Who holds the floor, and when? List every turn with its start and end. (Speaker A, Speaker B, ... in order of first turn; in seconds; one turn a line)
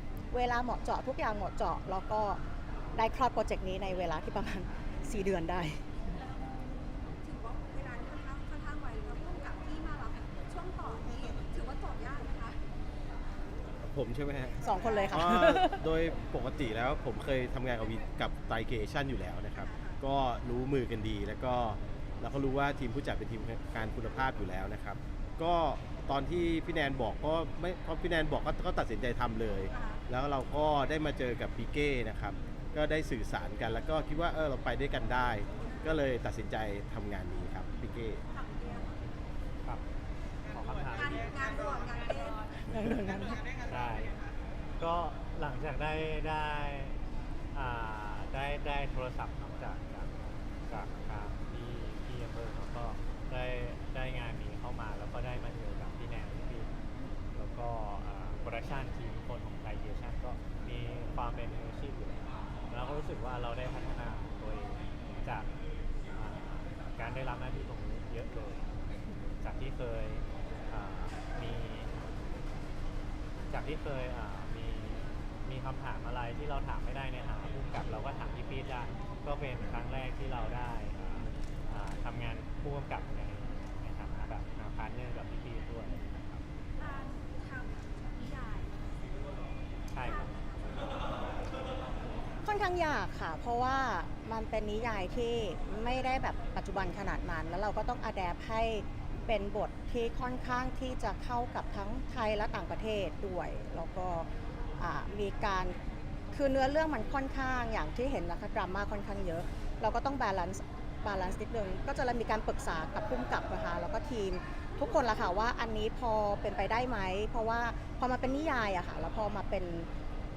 Speaker A: 0.3-2.4
Speaker A: 3.0-5.8
Speaker B: 6.2-12.6
Speaker C: 13.8-38.2
Speaker A: 14.6-15.8
Speaker B: 19.6-20.0
Speaker B: 29.7-30.0
Speaker B: 35.6-36.0
Speaker B: 38.3-39.1
Speaker D: 40.5-41.2
Speaker B: 40.9-42.5
Speaker A: 42.6-43.4
Speaker D: 43.6-44.2
Speaker D: 44.8-47.0
Speaker D: 47.5-56.7
Speaker D: 57.4-65.5
Speaker D: 66.1-68.7
Speaker D: 69.4-71.9
Speaker D: 73.5-86.4
Speaker B: 86.8-88.8
Speaker D: 89.9-90.4
Speaker B: 90.0-91.1
Speaker A: 92.4-104.3
Speaker A: 104.8-105.8
Speaker A: 106.3-119.9